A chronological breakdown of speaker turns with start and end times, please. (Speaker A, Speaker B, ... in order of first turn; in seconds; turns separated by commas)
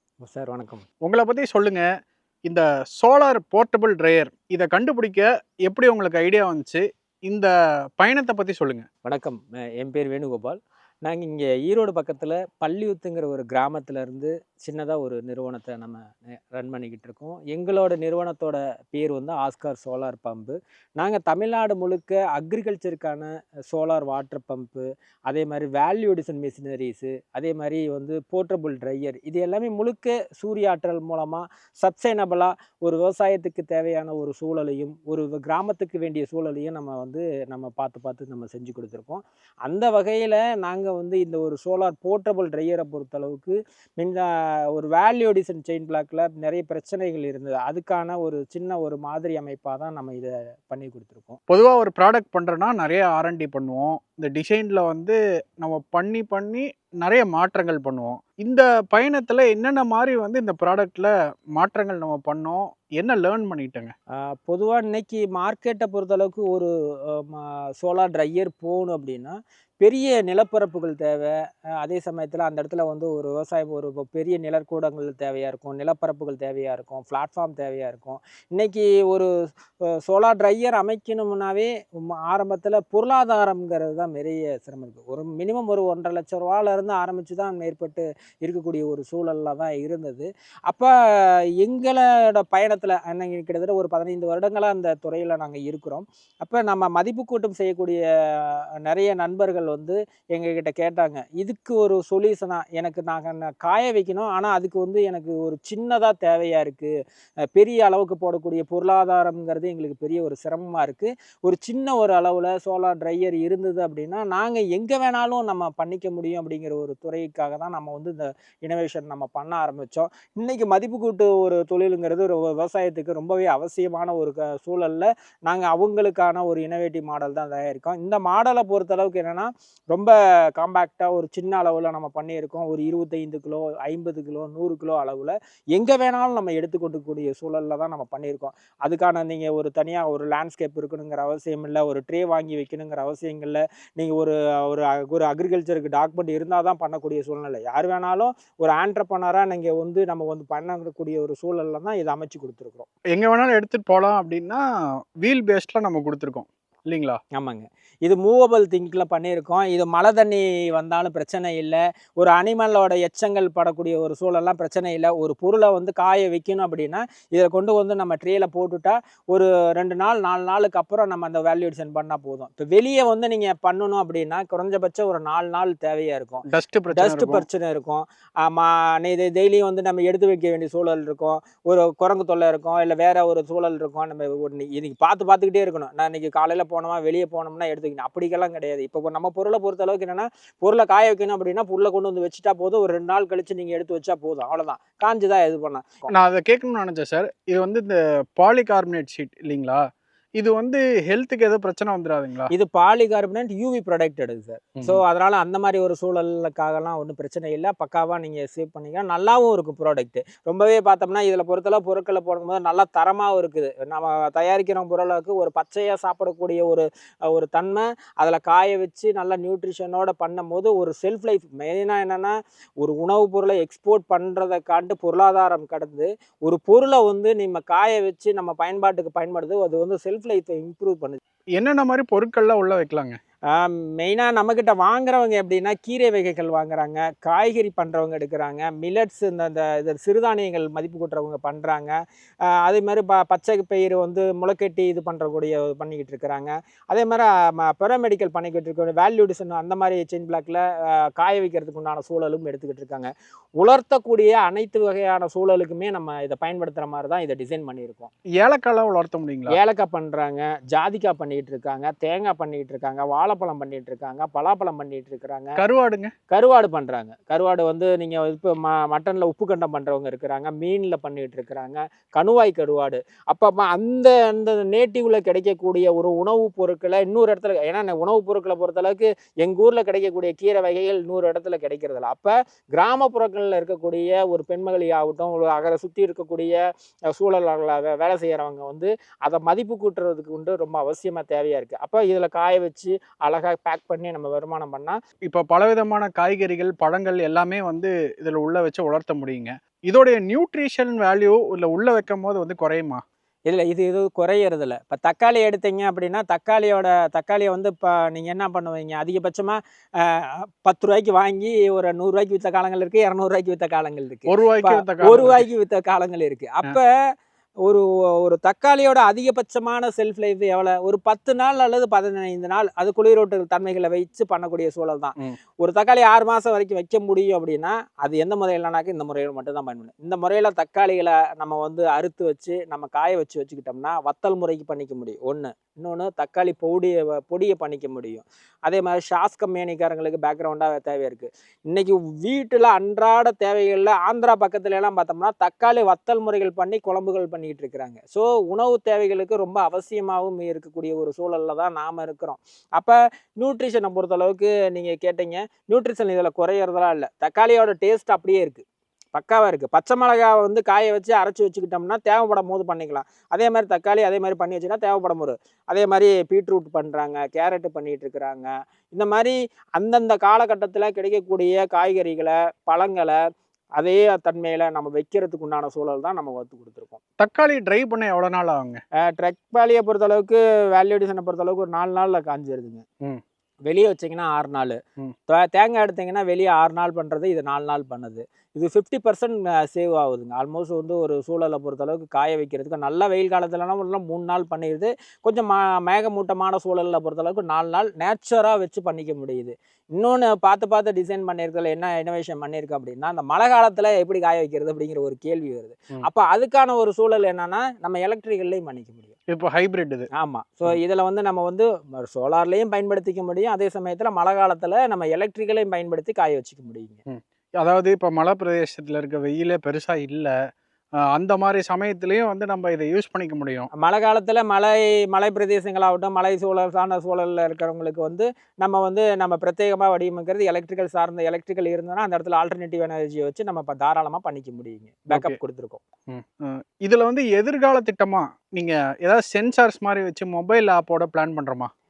Speaker A: 0.2-0.8, Speaker B: 1.0-1.8, Speaker B: 2.5-8.8, Speaker A: 9.0-51.4, Speaker B: 51.5-63.9, Speaker A: 64.2-79.3, Speaker A: 79.9-106.9, Speaker A: 107.5-152.9, Speaker B: 153.1-154.6, Speaker B: 155.2-157.2, Speaker A: 157.3-196.1, Speaker B: 176.5-177.4, Speaker B: 196.1-199.8, Speaker B: 200.4-202.5, Speaker A: 202.5-231.2, Speaker B: 231.6-233.2, Speaker A: 233.5-253.1, Speaker A: 253.6-258.1, Speaker B: 258.4-259.6, Speaker A: 259.5-265.6, Speaker B: 265.6-266.1, Speaker A: 266.3-286.6, Speaker A: 287.1-295.0, Speaker B: 295.3-303.0, Speaker A: 303.5-316.9, Speaker B: 314.3-315.4, Speaker A: 317.6-373.2, Speaker A: 373.8-377.0, Speaker B: 377.2-378.8, Speaker A: 379.0-382.8, Speaker A: 383.6-409.1, Speaker B: 409.3-410.1, Speaker A: 410.1-417.0, Speaker B: 417.1-420.3, Speaker B: 421.1-423.7, Speaker A: 423.8-435.8, Speaker B: 435.1-435.4, Speaker B: 436.1-441.7